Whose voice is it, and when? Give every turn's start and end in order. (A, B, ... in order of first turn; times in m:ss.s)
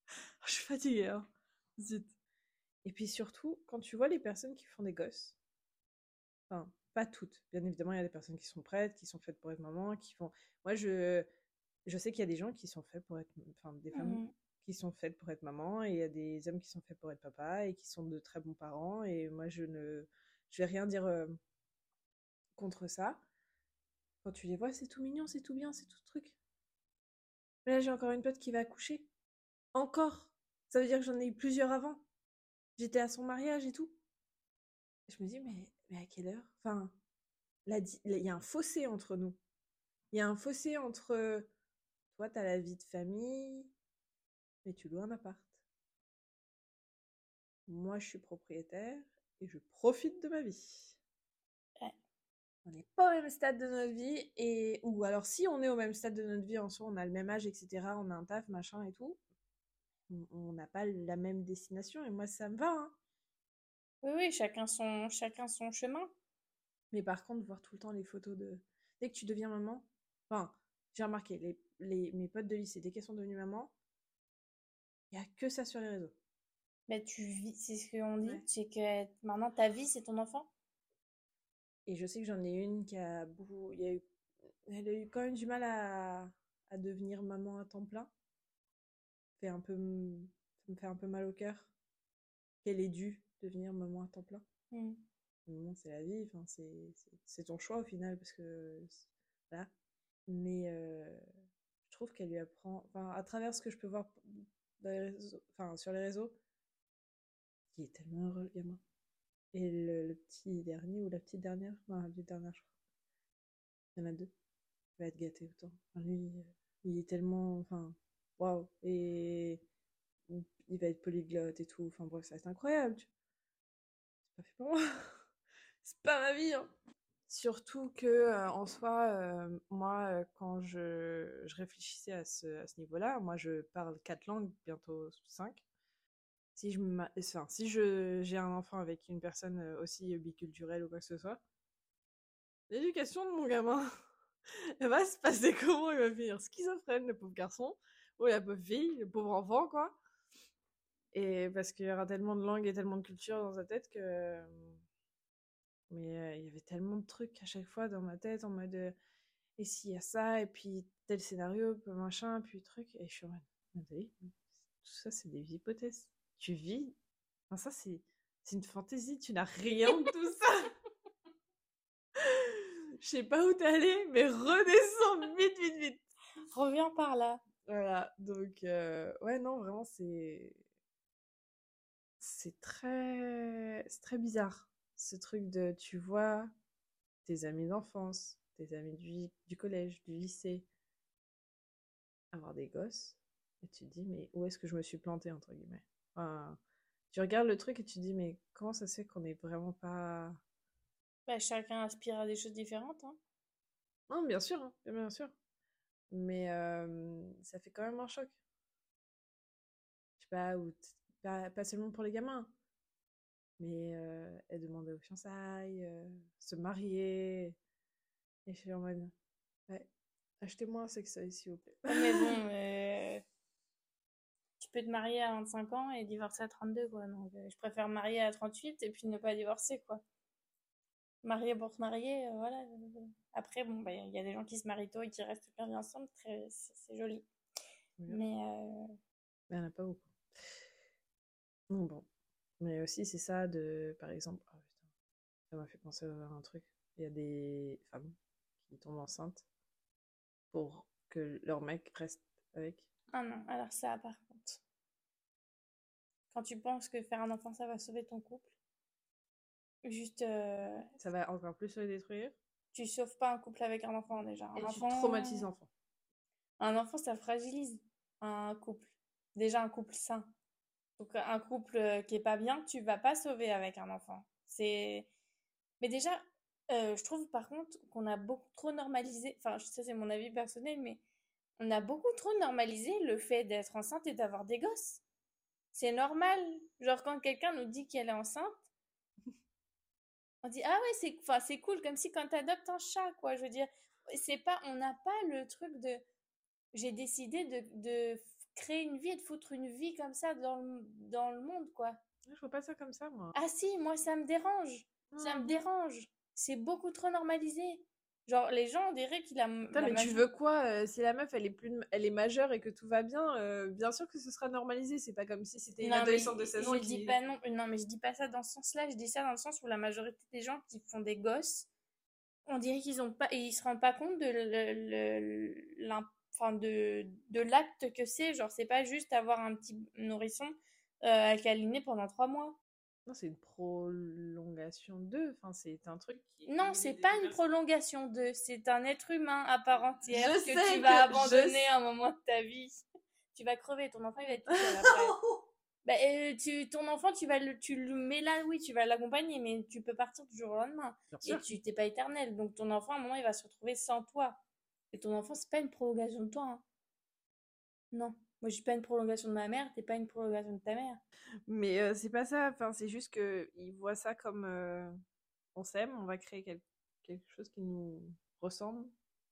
0:00.4-0:02.1 A
0:02.8-0:05.4 A
0:06.5-0:11.2 A
0:11.8-0:21.3 A
0:13.9-0:14.3 B
0:22.6-0:23.2 A
0:24.2-0:26.4 A
0:27.6-0:29.1 A
0:29.7-0:32.0 A
0:32.8-0:34.0 A
0:35.1-0:37.0 A
0:37.6-0:39.4 A
0:40.1-0:41.5 A
0:42.1-0:43.7 A
0:44.6-0:45.6 A
0:47.7-0:51.0 A
0:52.6-0:59.2 A
1:00.1-1:02.9 A
1:04.0-1:06.1 B
1:06.9-1:13.7 A
1:15.1-1:16.1 A
1:16.9-1:20.5 B
1:21.8-1:24.0 A
1:24.6-1:28.1 A
1:29.4-1:31.7 A
1:32.6-1:34.4 A
1:34.7-1:35.0 B
1:35.5-1:39.7 A
1:40.3-1:41.2 A
1:41.8-1:46.4 A
1:47.7-1:48.8 A
1:49.5-1:52.7 A
1:54.0-1:54.3 A
1:55.0-1:59.6 A
2:00.3-2:03.1 A
2:04.3-2:05.2 A
2:05.8-2:06.7 A
2:07.3-2:15.6 A
2:16.5-2:21.4 A
2:22.7-2:23.9 A
2:24.8-2:29.9 A
2:31.1-2:34.8 A
2:35.9-2:38.9 A
2:39.6-2:47.0 A
2:47.5-2:50.7 A
2:52.2-2:56.0 A
2:56.5-2:57.4 B
2:57.6-3:00.6 A
3:02.2-3:06.5 A
3:07.2-3:10.7 A
3:12.3-3:16.6 A
3:17.1-3:20.4 A
3:21.3-3:23.2 B
3:24.1-3:25.3 A
3:26.1-3:28.3 A
3:30.2-3:32.5 A
3:33.6-3:37.6 A
3:38.4-3:39.1 A
3:40.4-3:42.4 A
3:41.9-3:43.2 B
3:44.6-3:50.0 B
3:51.2-3:57.3 B
3:58.1-3:58.9 B
3:59.5-4:00.6 A
4:01.7-4:02.1 A
4:02.6-4:04.7 A
4:05.5-4:08.1 A
4:08.6-4:09.4 A
4:10.5-4:12.9 A
4:13.1-4:14.6 B
4:16.3-4:18.5 B
4:19.8-4:20.9 B
4:21.0-4:22.4 A
4:22.7-4:25.5 B
4:24.6-4:25.7 A
4:26.6-4:30.3 B
4:31.0-4:35.1 B
4:35.8-4:41.0 B
4:41.6-4:45.0 B
4:45.7-4:48.6 B
4:50.4-4:56.0 B
4:56.7-5:02.0 B
5:02.3-5:03.4 A
5:03.3-5:10.2 B
5:05.1-5:05.6 A
5:09.7-5:17.2 A
5:15.8-5:21.7 B
5:22.5-5:32.6 B
5:33.1-5:37.4 A
5:36.4-5:45.2 B
5:40.1-5:41.7 A
5:44.5-5:45.4 A
5:45.8-5:54.4 B
5:51.1-5:51.4 A
5:54.9-5:56.6 B
5:57.9-6:01.0 B
6:01.5-6:04.9 A
6:05.5-6:08.9 A